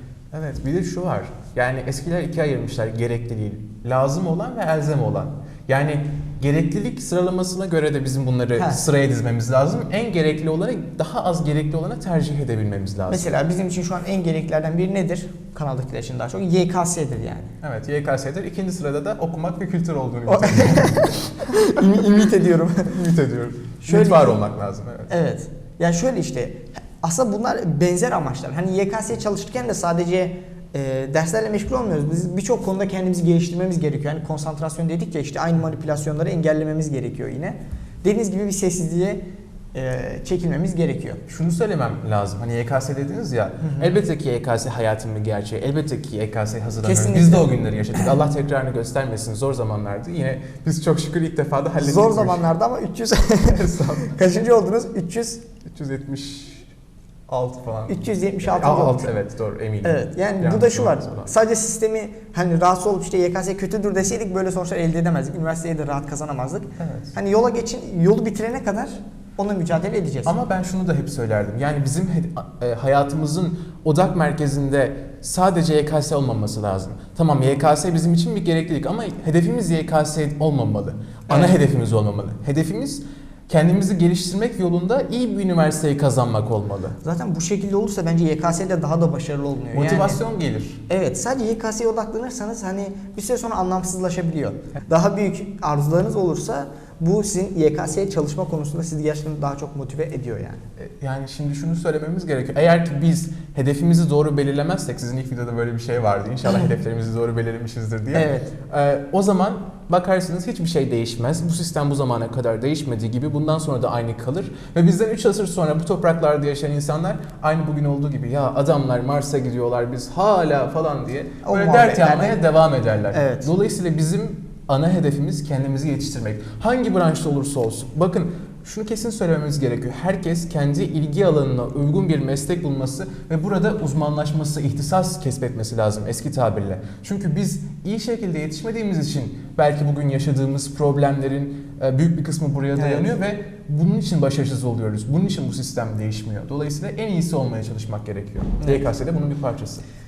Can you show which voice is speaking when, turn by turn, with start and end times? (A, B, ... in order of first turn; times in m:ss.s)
0:00.3-0:13.3 A
0:08.6-0:08.8 B
0:13.1-0:17.5 B
0:17.6-0:21.3 A
0:20.3-0:23.0 B
0:22.8-0:25.1 A
0:23.8-0:24.4 B
0:25.1-0:39.2 B
0:39.7-0:41.2 B
0:41.3-0:52.4 A
0:43.6-0:44.0 B
0:46.8-0:48.2 B
0:51.8-0:55.5 B
0:53.5-0:54.2 A
0:55.6-0:56.7 A
0:57.3-1:01.3 A
0:57.9-0:59.1 B
0:59.8-1:10.3 B
1:06.8-1:07.1 A
1:10.2-1:27.0 A
1:21.3-1:21.6 B
1:27.0-1:30.2 B
1:29.7-1:30.8 A
1:30.9-1:40.6 B
1:40.8-2:29.8 A
1:48.1-1:48.5 B
2:01.4-2:02.4 B
2:03.1-2:03.5 B
2:22.8-2:23.1 B
2:28.6-2:28.8 B